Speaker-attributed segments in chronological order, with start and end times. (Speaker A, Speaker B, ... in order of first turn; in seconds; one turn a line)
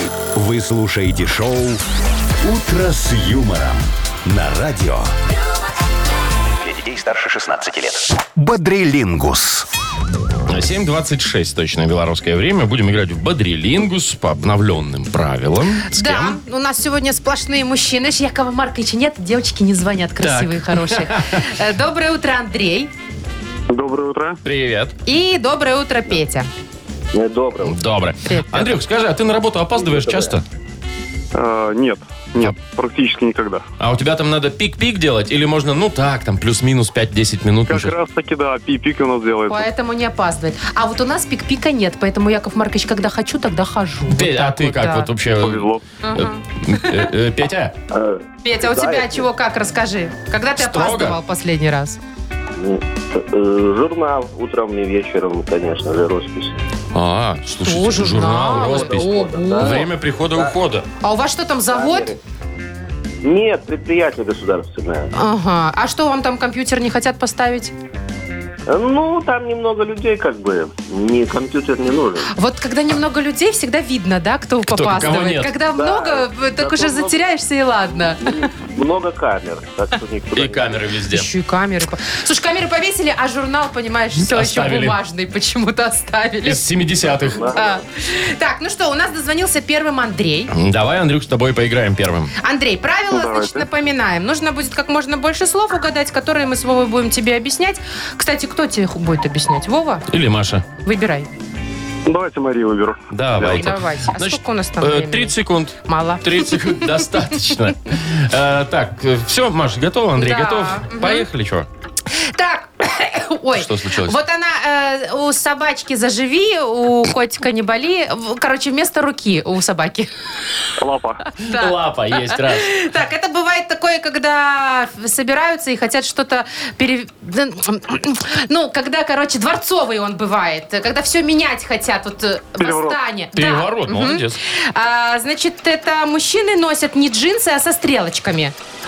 Speaker A: 0.3-1.8
Speaker A: 2.4-5.1
Speaker A: 6.6-9.7
Speaker B: 10.5-16.4
Speaker C: 15.9-22.9
Speaker B: 20.2-21.5
Speaker D: 23.7-24.4
Speaker B: 24.4-24.9
Speaker C: 25.1-26.5
Speaker E: 27.1-27.8
Speaker B: 27.6-30.4
Speaker C: 28.2-28.8
Speaker E: 29.8-30.4
Speaker D: 31.3-33.6
Speaker B: 33.8-38.0
Speaker D: 37.7-39.7
Speaker C: 39.5-45.1
Speaker B: 44.1-47.7
Speaker D: 45.4-45.8
Speaker C: 46.0-47.1
Speaker E: 47.9-49.3
Speaker C: 48.4-52.0
Speaker B: 50.6-51.2
Speaker E: 52.6-56.6
Speaker B: 56.9-60.9
Speaker C: 57.6-59.8
Speaker E: 58.5-60.5
Speaker C: 61.0-62.1
Speaker E: 61.7-62.2
Speaker E: 63.2-65.1
Speaker C: 65.1-67.7
Speaker E: 68.7-72.3
Speaker C: 72.3-78.5
Speaker B: 74.7-75.5
Speaker E: 75.7-77.2
Speaker E: 78.2-80.9
Speaker B: 80.3-81.3
Speaker C: 81.1-86.6
Speaker B: 84.2-85.0
Speaker B: 86.4-87.5
Speaker E: 87.1-87.8
Speaker C: 87.5-90.5
Speaker B: 90.5-92.3
Speaker C: 92.4-100.1
Speaker D: 93.1-93.7
Speaker B: 100.1-100.7
Speaker C: 100.8-101.3
Speaker D: 102.1-103.7
Speaker B: 103.1-111.7
Speaker C: 103.4-107.5
Speaker C: 110.2-111.3
Speaker C: 112.1-120.1
Speaker B: 113.6-114.2
Speaker D: 120.8-121.2
Speaker C: 121.3-138.5
Speaker B: 121.4-122.7
Speaker D: 132.6-133.0
Speaker B: 133.3-134.4